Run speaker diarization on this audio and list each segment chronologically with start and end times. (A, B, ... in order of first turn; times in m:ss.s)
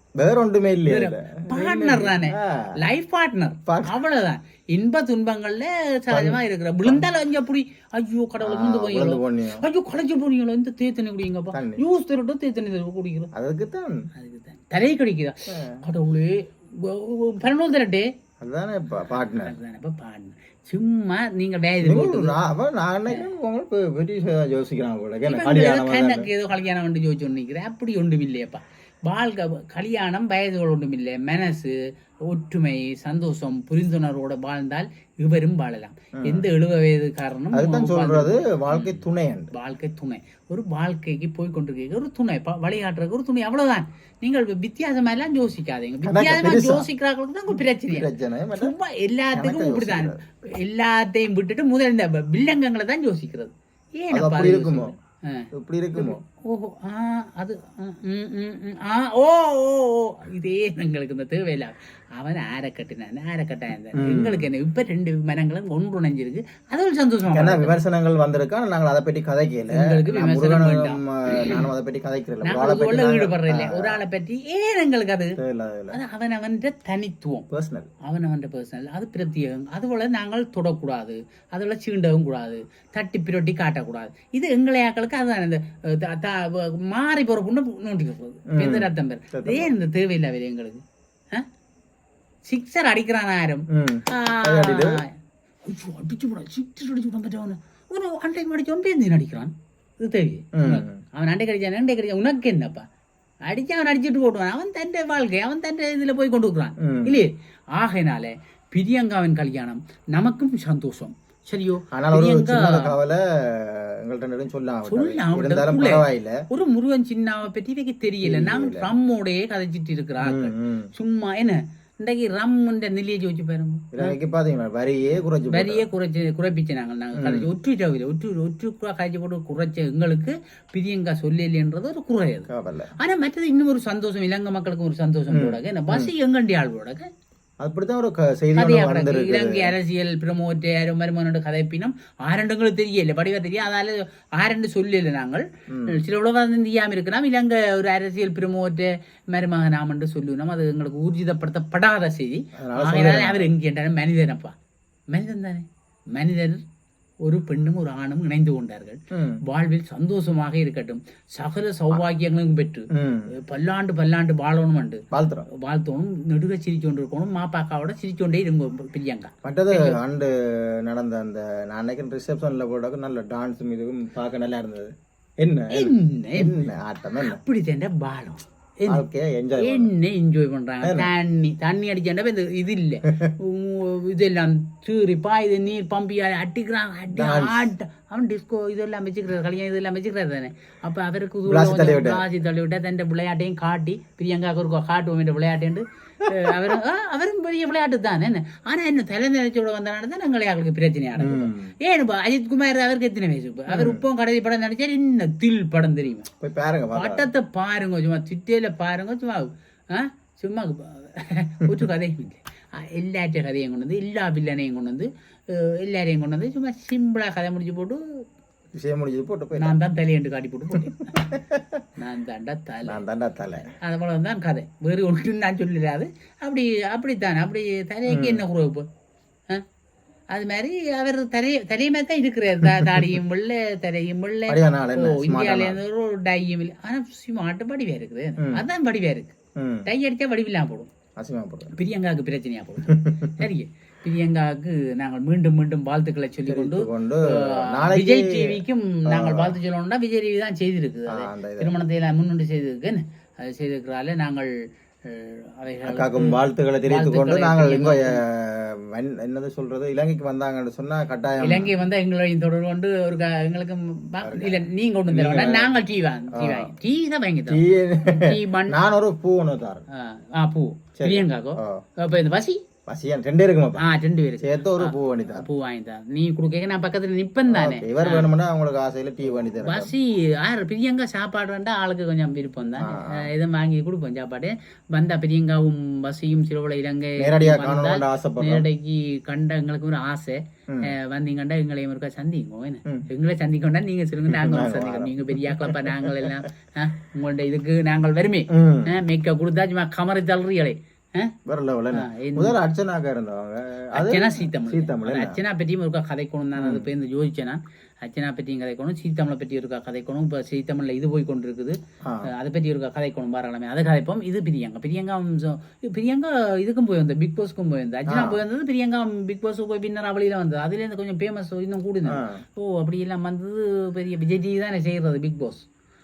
0:00.2-0:02.7 A
0:00.8-0:13.3 B
0:03.7-0:04.0 A
0:06.1-0:07.1 A
0:08.4-0:09.6 A
0:11.5-0:11.8 A
0:13.3-0:14.0 A
0:14.2-0:18.1 B
0:15.5-0:15.8 A
0:18.4-0:19.6 A
0:19.1-0:22.4 B
0:21.8-0:26.3 A
0:25.3-0:31.8 B
0:32.3-1:07.7 B
0:36.2-0:36.4 A
0:37.5-0:39.5 A
0:46.0-0:46.9 A
0:47.9-0:48.7 A
0:49.3-0:50.2 A
0:54.1-0:54.9 A
0:55.5-0:56.2 A
1:03.9-1:04.5 A
1:07.3-1:14.0 A
1:09.7-1:11.7 B
1:12.4-1:15.4 B
1:15.4-1:16.0 A
1:15.9-1:17.5 B
1:17.5-1:17.9 A
1:18.0-1:31.4 B
1:28.5-1:29.7 A
1:32.4-1:35.1 B
1:33.7-1:35.0 A
1:35.6-1:42.8 B
1:40.5-1:41.0 A
1:43.5-1:53.0 B
1:46.8-1:47.2 A
1:51.9-1:56.4 A
1:54.9-2:04.2 B
1:58.2-1:58.9 A
2:00.2-2:00.9 A
2:03.9-2:05.8 A
2:05.5-2:17.1 B
2:07.1-2:07.5 A
2:12.5-2:12.9 A
2:15.3-2:16.1 A
2:17.6-2:19.7 A
2:18.6-2:34.5 B
2:25.7-2:26.0 A
2:32.6-2:33.5 A
2:35.1-2:36.6 B
2:37.2-2:50.0 B
2:39.1-2:39.4 A
2:42.9-2:43.3 A
2:45.1-2:45.5 A
2:49.4-2:57.4 A
2:55.7-2:56.6 B
2:57.2-2:59.0 B
2:58.9-2:59.9 A
2:59.6-3:26.3 B
3:00.8-3:01.1 A
3:03.1-3:03.3 A
3:07.1-3:07.7 A
3:11.5-3:12.2 A
3:16.3-3:16.8 A
3:21.2-3:21.7 A
3:23.7-3:24.0 A
3:26.4-3:27.3 A
3:27.0-3:38.0 B
3:38.7-3:39.8 A
3:39.5-3:41.4 B
3:40.8-3:41.8 A
3:42.0-3:43.0 B
3:42.8-3:43.7 A
3:43.8-3:48.9 B
3:48.1-3:48.4 A
3:50.3-3:59.3 B
3:52.6-3:53.1 A
3:54.5-3:55.8 A
3:58.4-3:58.7 A
3:59.6-3:59.9 A
3:59.8-4:00.9 B
4:01.2-4:01.7 A
4:01.7-4:14.5 B
4:02.8-4:03.4 A
4:06.4-4:09.6 A
4:11.1-4:11.7 A
4:15.0-4:16.3 B
4:15.8-4:21.7 A
4:16.9-4:18.2 B
4:21.4-4:28.8 B
4:24.2-4:25.8 A
4:26.3-4:26.7 A
4:27.5-4:29.8 A
4:29.9-4:32.6 B
4:31.0-4:31.8 A
4:32.9-4:33.9 A
4:33.8-4:38.3 B
4:34.4-4:35.5 A
4:37.5-4:39.9 A
4:39.4-5:01.3 B
4:42.8-4:43.3 A
4:47.2-4:48.7 A
4:50.7-4:50.9 A
4:54.2-4:56.4 A
4:58.5-4:59.0 A
5:01.4-5:05.4 A
5:01.9-5:02.6 B
5:04.0-5:25.6 B
5:06.6-5:06.9 A
5:12.0-5:12.3 A
5:18.1-5:18.4 A
5:22.0-5:22.4 A